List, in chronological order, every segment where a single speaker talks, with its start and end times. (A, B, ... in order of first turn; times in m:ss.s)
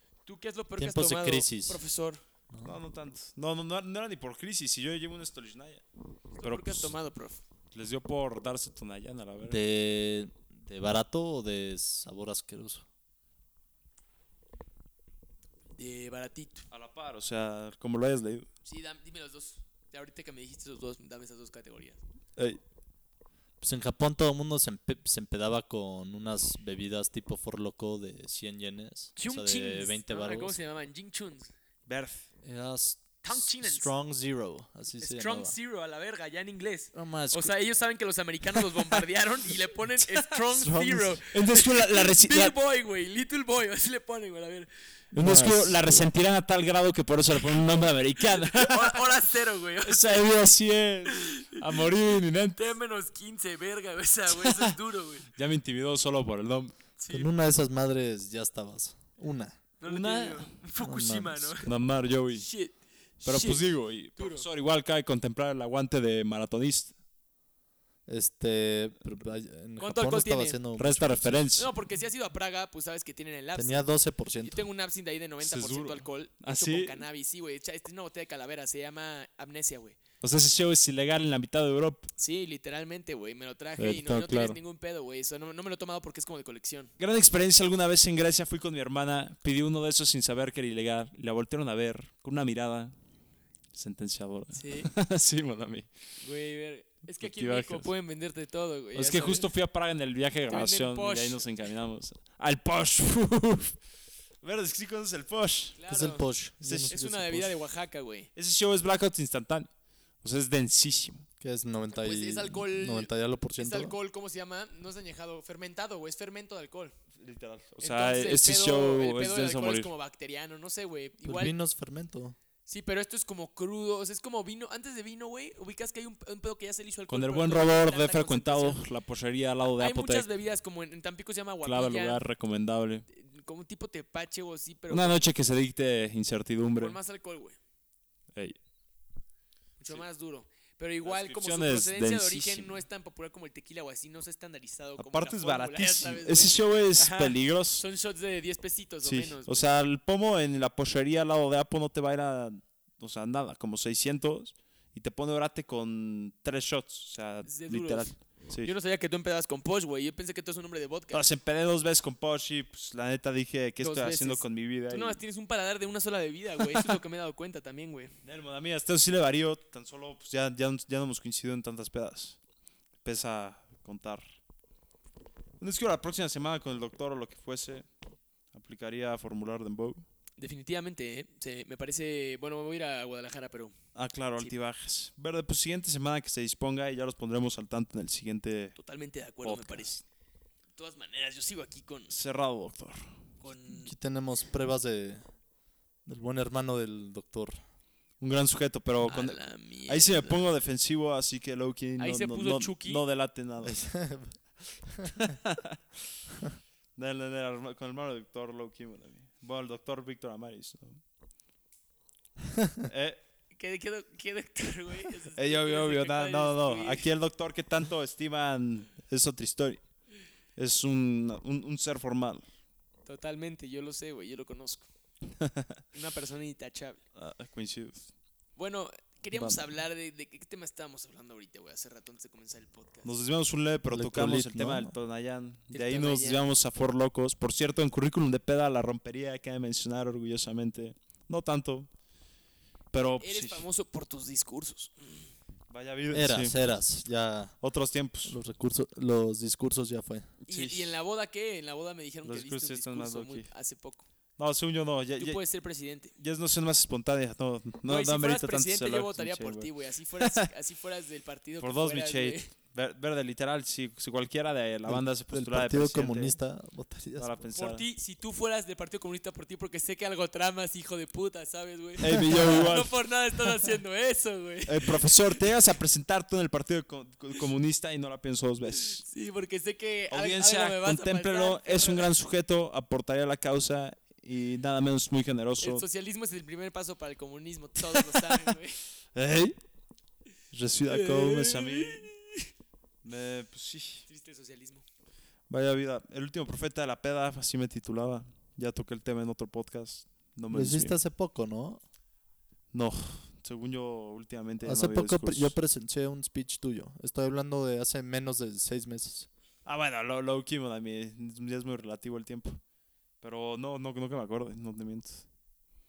0:00.2-0:02.2 A
0:00.8-0:01.8 B
0:02.5-0:02.8 B
0:02.6-0:05.8 C
0:06.4-0:07.4 A
0:06.4-0:06.9 C
0:07.7-0:09.6 C
0:09.4-0:12.8 B
0:15.8-0:16.6 A
0:16.7-0:18.5 C
0:18.6-0:22.0 A
0:23.6-0:30.6 B
0:29.2-0:31.5 A
0:31.8-0:32.2 C
0:32.4-0:35.5 B
0:33.2-0:33.9 A
0:35.0-0:44.7 A
0:36.9-0:37.5 B
0:40.0-0:41.2 B
0:41.3-0:42.5 C
0:45.1-0:49.0 C
0:45.2-0:46.1 B
0:48.4-0:50.2 A
0:49.8-0:52.6 C
0:51.1-0:51.8 A
0:52.6-0:55.3 A
0:54.3-0:54.7 C
0:55.3-0:56.7 C
0:57.0-0:57.3 A
0:57.1-0:59.6 B
0:59.8-1:01.7 A
0:59.9-1:00.5 C
1:00.8-1:01.6 B
1:01.6-1:02.5 C
1:02.3-1:03.6 A
1:03.2-1:06.9 C
1:04.2-1:04.4 A
1:08.1-1:11.5 B
1:09.8-1:10.6 A
1:10.8-1:11.7 C
1:11.6-1:13.9 A
1:13.5-1:14.6 B
1:14.4-1:20.0 A
1:15.4-1:17.0 C
1:20.2-1:22.1 C
1:22.2-1:26.9 A
1:23.8-1:24.6 C
1:27.0-1:32.9 C
1:33.7-1:35.9 C
1:34.6-1:34.9 A
1:36.2-1:39.5 A
1:37.2-1:37.9 C
1:38.9-1:43.8 C
1:40.5-1:41.4 A
1:44.4-1:45.8 C
1:45.8-1:46.3 A
1:45.9-1:47.5 B
1:46.6-1:47.2 C
1:46.8-1:48.3 A
1:48.3-1:49.7 C
1:50.2-1:51.2 C
1:51.4-1:53.9 B
1:51.9-1:56.9 A
1:57.2-1:59.9 C
1:57.8-2:01.5 A
2:01.2-2:02.4 B
2:02.6-2:08.8 A
2:07.1-2:10.3 C
2:09.8-2:12.2 A
2:11.6-2:13.0 C
2:13.1-2:15.2 A
2:14.9-2:17.0 C
2:16.8-2:17.6 A
2:19.8-2:29.6 A
2:21.0-2:22.8 C
2:25.0-2:27.8 C
2:29.0-2:38.7 C
2:37.4-2:41.2 A
2:41.1-2:45.2 C
2:43.8-2:48.1 A
2:46.6-2:47.0 C
2:48.2-2:52.4 C
2:53.0-2:54.4 C
2:55.6-2:57.8 C
2:58.5-3:00.0 C
3:00.4-3:03.7 A
3:03.9-3:08.8 C
3:08.8-3:10.0 A
3:09.4-3:10.0 C
3:10.8-3:12.1 A
3:12.1-3:13.1 C
3:13.4-3:13.9 A
3:13.6-3:15.2 B
3:16.0-3:17.6 B
3:18.2-3:23.9 C
3:19.0-3:20.4 A
3:22.0-3:23.0 A
3:23.6-3:25.4 B
3:25.1-3:25.8 C
3:27.0-3:31.0 C
3:32.8-3:33.2 C
3:33.5-3:37.0 A
3:35.4-3:39.8 C
3:40.6-3:42.4 C
3:43.0-3:44.9 A
3:45.4-3:45.8 C
3:45.9-3:47.0 A
3:47.1-3:48.1 C
3:48.6-3:53.2 A
3:49.3-3:49.6 C
3:53.0-4:01.9 C
3:53.9-3:54.9 B
3:55.7-3:56.4 A
4:02.9-4:03.6 C
4:03.0-4:05.3 A
4:05.7-4:06.6 C
4:06.1-4:07.6 B
4:07.6-4:08.4 C
4:08.2-4:10.3 B
4:10.4-4:14.1 A
4:10.5-4:11.0 C
4:12.2-4:13.5 C
4:14.4-4:15.4 C
4:15.2-4:16.1 A
4:16.2-4:19.7 C
4:17.8-4:22.5 A
4:20.2-4:20.5 C
4:21.6-4:26.4 C
4:24.9-4:27.4 B
4:27.2-4:27.8 C
4:27.5-4:35.4 A
4:32.0-4:33.0 C
4:32.1-4:32.7 B
4:34.7-4:39.0 C
4:39.0-4:42.1 A
4:40.1-4:45.8 C
4:45.6-4:48.8 A
4:47.9-4:48.5 C
4:49.1-4:49.6 C
4:50.5-4:52.1 C
4:50.9-4:52.5 A
4:53.0-4:54.0 C
4:54.1-4:54.8 A
4:55.5-5:01.0 C
5:00.5-5:01.8 B
5:02.7-5:05.5 C
5:04.6-5:09.3 B
5:09.6-5:12.6 C
5:13.2-5:15.2 C